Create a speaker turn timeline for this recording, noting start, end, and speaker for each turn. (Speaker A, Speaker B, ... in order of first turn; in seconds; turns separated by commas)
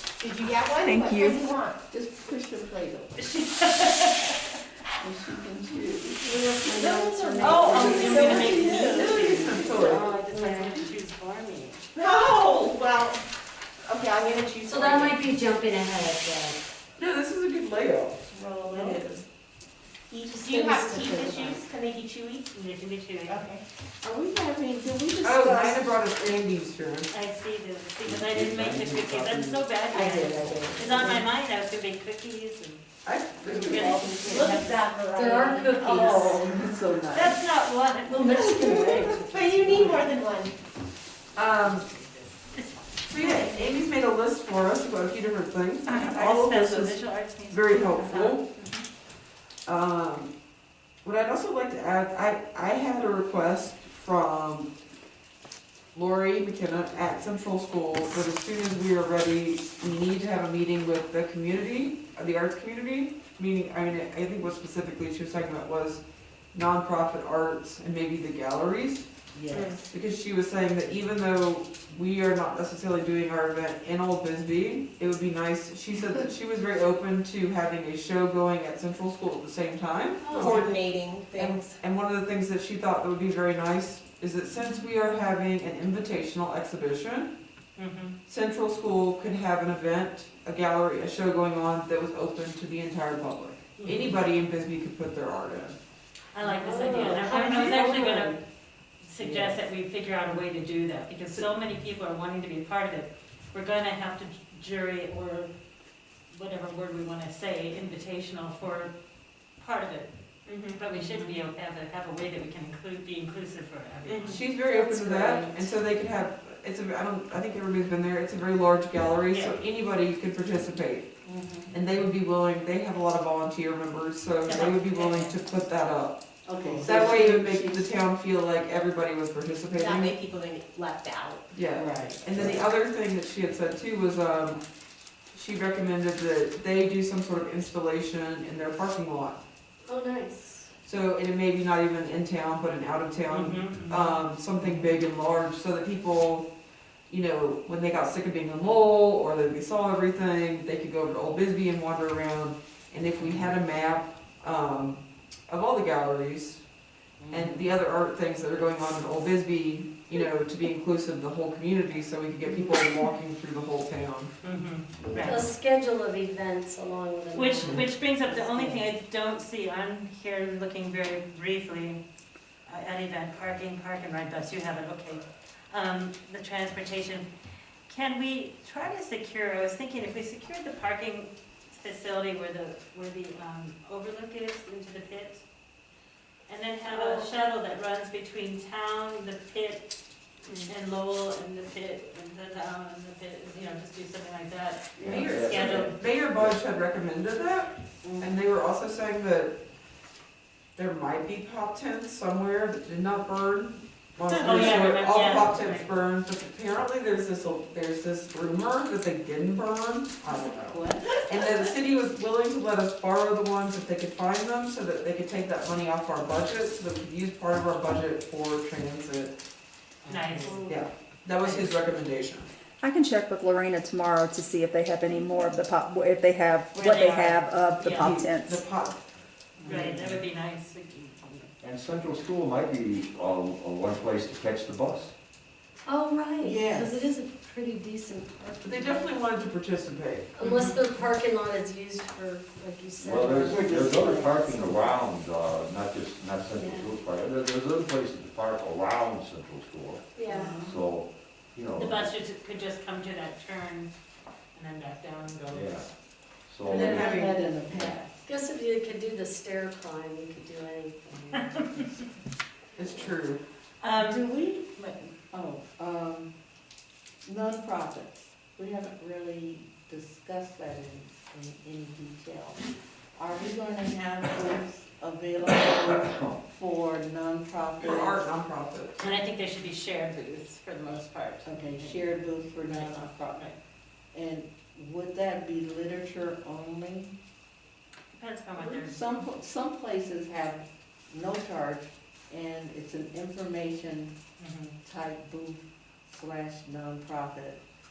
Speaker A: 0.2-1.8, Speaker B: 0.9-1.3, Speaker C: 1.9-3.2, Speaker D: 3.1-4.6, Speaker C: 5.0-6.2, Speaker B: 6.2-8.4, Speaker E: 6.7-10.5, Speaker C: 6.7-9.7, Speaker A: 7.5-8.9, Speaker D: 7.5-11.9, Speaker B: 10.0-10.8, Speaker A: 12.0-13.2, Speaker A: 13.8-15.2, Speaker B: 14.7-16.6, Speaker E: 17.0-18.2, Speaker A: 18.6-19.0, Speaker E: 18.8-19.2, Speaker A: 20.1-22.5, Speaker B: 20.3-21.6, Speaker E: 20.6-21.0, Speaker D: 22.5-23.5, Speaker A: 23.3-23.6, Speaker C: 24.0-26.0, Speaker E: 25.2-27.1, Speaker D: 27.1-32.8, Speaker F: 28.1-29.7, Speaker C: 30.9-31.1, Speaker E: 33.0-34.6, Speaker C: 33.5-34.6, Speaker D: 33.5-34.7, Speaker B: 34.3-36.4, Speaker A: 34.6-35.8, Speaker C: 35.8-37.4, Speaker D: 37.1-40.1, Speaker B: 38.1-39.1, Speaker A: 39.1-40.6, Speaker E: 41.4-41.9, Speaker D: 41.4-43.3, Speaker E: 43.1-47.0, Speaker D: 45.9-48.9, Speaker E: 47.5-48.4, Speaker E: 49.6-50.3, Speaker E: 51.0-54.7, Speaker E: 55.9-69.1, Speaker C: 69.3-69.8, Speaker E: 69.9-87.3, Speaker A: 80.3-81.8, Speaker D: 87.8-88.2, Speaker E: 88.3-95.8, Speaker D: 93.8-94.2, Speaker D: 96.3-98.4, Speaker B: 96.6-98.3, Speaker E: 97.0-97.9, Speaker D: 99.0-105.6, Speaker C: 99.2-99.6, Speaker D: 106.3-114.5, Speaker A: 114.1-114.3, Speaker E: 114.3-121.1, Speaker C: 114.7-115.7, Speaker D: 119.3-119.5, Speaker C: 121.2-121.8, Speaker E: 121.7-126.2, Speaker D: 124.4-125.4, Speaker C: 126.5-128.1, Speaker D: 126.6-127.0, Speaker E: 126.8-130.2, Speaker A: 129.7-131.5, Speaker E: 131.5-134.6, Speaker C: 131.7-132.6, Speaker E: 135.3-139.4, Speaker B: 139.9-140.7, Speaker E: 140.8-146.5, Speaker D: 143.3-144.2, Speaker E: 147.1-156.6, Speaker C: 153.2-153.6, Speaker C: 157.2-157.7, Speaker E: 157.3-164.3, Speaker D: 164.4-165.5, Speaker B: 165.0-167.9, Speaker D: 167.3-172.0, Speaker E: 167.6-167.9, Speaker C: 168.3-168.9, Speaker D: 172.7-177.3, Speaker D: 177.9-185.4, Speaker D: 186.5-196.0, Speaker E: 186.9-187.2, Speaker F: 195.0-196.6, Speaker E: 195.0-199.6, Speaker C: 198.0-198.3, Speaker E: 200.8-219.3, Speaker D: 204.3-205.9, Speaker D: 210.6-211.1, Speaker D: 220.1-220.8, Speaker C: 220.1-220.6, Speaker E: 220.5-222.5, Speaker D: 221.4-221.7, Speaker G: 222.8-228.6, Speaker D: 226.7-228.2, Speaker E: 228.0-229.0, Speaker C: 229.6-230.1, Speaker D: 229.6-231.5, Speaker F: 231.6-235.1, Speaker B: 235.9-239.0, Speaker C: 236.4-237.1, Speaker E: 238.6-240.3, Speaker B: 240.4-244.7, Speaker D: 240.4-240.8, Speaker F: 243.0-252.0, Speaker C: 243.5-244.0, Speaker B: 246.6-247.0, Speaker B: 250.2-250.6, Speaker C: 250.3-250.8, Speaker D: 251.8-253.9, Speaker D: 254.5-255.9, Speaker F: 255.5-255.9, Speaker F: 256.5-257.0, Speaker C: 256.6-258.2, Speaker E: 256.7-257.4, Speaker B: 256.8-257.2, Speaker F: 257.7-258.0, Speaker B: 258.2-261.4, Speaker D: 261.3-262.0, Speaker C: 261.4-262.1, Speaker B: 262.8-263.2, Speaker E: 262.8-263.4, Speaker D: 263.8-265.1, Speaker C: 263.9-266.3, Speaker C: 267.2-278.3, Speaker F: 275.9-276.4, Speaker E: 277.8-279.0, Speaker D: 279.0-283.6, Speaker C: 281.4-283.5, Speaker C: 284.1-287.1, Speaker D: 288.1-289.0, Speaker C: 288.6-294.2, Speaker D: 294.4-294.8, Speaker C: 294.8-297.6